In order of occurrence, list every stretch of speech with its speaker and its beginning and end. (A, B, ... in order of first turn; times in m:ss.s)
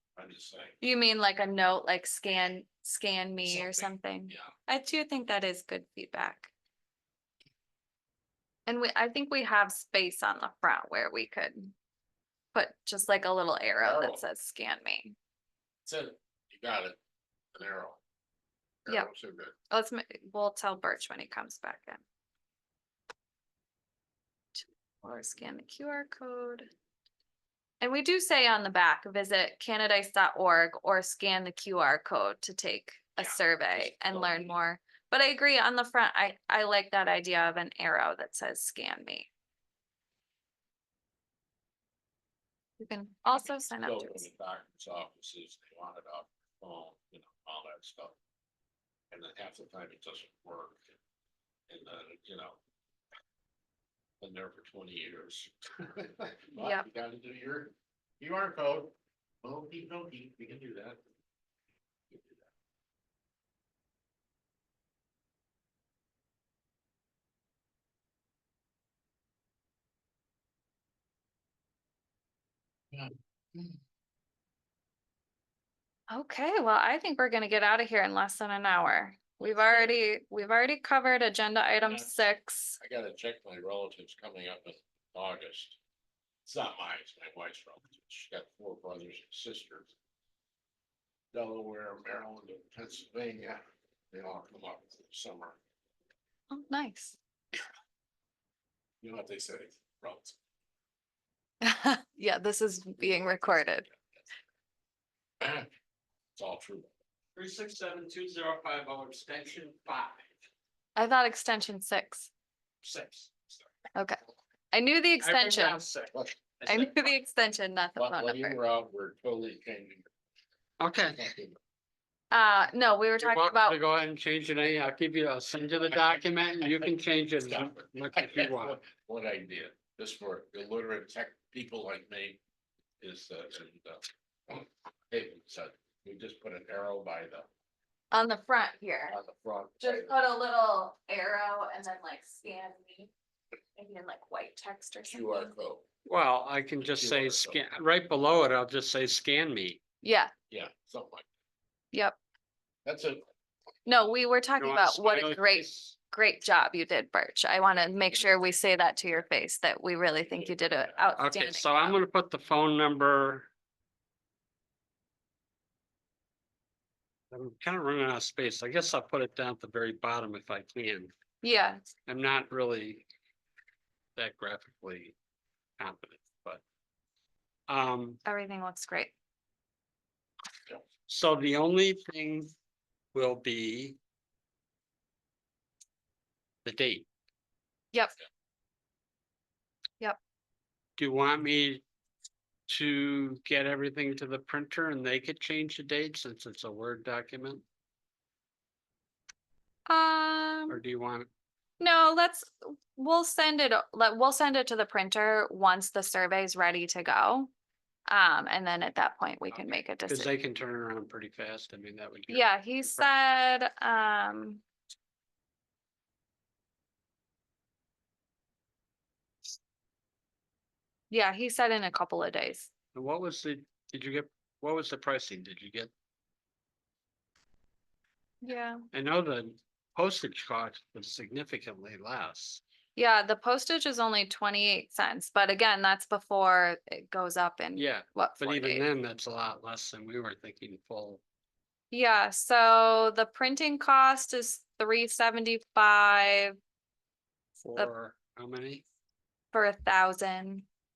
0:00.2-0:00.8 A
0:00.8-0:06.5 B
0:03.4-0:04.5 A
0:08.7-0:11.7 B
0:12.5-0:15.1 B
0:13.8-0:14.2 A
0:15.8-0:17.0 A
0:17.5-0:18.0 A
0:18.8-0:19.5 A
0:19.7-0:22.0 B
0:24.6-0:26.7 B
0:27.8-0:39.3 B
0:33.2-0:34.5 A
0:42.8-0:44.3 B
0:43.8-0:48.2 A
0:49.1-0:50.8 A
0:51.7-0:52.6 A
0:54.2-1:01.0 A
0:56.6-0:56.8 B
1:02.1-1:02.4 A
1:12.9-1:13.8 A
1:16.1-1:22.8 B
1:19.4-1:19.9 A
1:21.8-1:25.8 A
1:26.4-1:29.9 A
1:31.3-1:35.6 A
1:36.5-1:37.2 B
1:39.0-1:40.4 A
1:41.6-1:43.9 B
1:43.0-1:43.9 A
1:45.4-1:45.7 A
1:46.3-1:46.9 A
1:47.3-1:50.3 C
1:51.0-1:52.3 B
1:52.8-1:53.6 C
1:54.7-1:55.8 B
1:55.2-1:57.0 C
1:56.6-1:58.6 B
1:58.0-2:00.1 A
2:00.8-2:01.3 C
2:01.2-2:01.5 A
2:02.3-2:03.8 B
2:03.2-2:08.8 C
2:07.5-2:12.4 A
2:13.0-2:17.5 A
2:18.1-2:19.2 B
2:19.1-2:20.1 A
2:19.8-2:23.1 B
2:23.8-2:25.5 B
2:25.1-2:25.8 A
2:26.0-2:29.8 C
2:26.8-2:27.6 A
2:30.0-2:30.3 B
2:30.5-2:31.3 A
2:32.8-2:33.2 A
2:33.8-2:42.0 B
2:34.6-2:36.0 C
2:40.3-2:41.1 A
2:41.2-2:43.5 C
2:47.3-2:51.1 C
2:51.4-2:51.8 B
2:52.0-2:53.0 C
2:54.2-2:55.1 C
2:55.8-2:56.6 C
2:57.7-2:58.2 C
2:58.2-2:59.1 B
3:01.1-3:02.5 C
3:03.1-3:04.0 C
3:06.6-3:07.0 C
3:11.0-3:11.8 C
3:12.7-3:17.6 C
3:19.9-3:20.8 B
3:20.7-3:21.3 C
3:21.8-3:27.5 B
3:28.1-3:30.3 B
3:30.1-3:33.0 C
3:32.3-3:34.6 B
3:41.1-3:42.7 B
3:42.9-3:45.9 C
3:48.4-3:48.8 B
3:48.9-3:52.6 C
3:53.0-3:58.8 B
3:57.8-4:01.2 C
4:01.9-4:06.6 B
4:07.6-4:08.8 C
4:09.5-4:10.6 B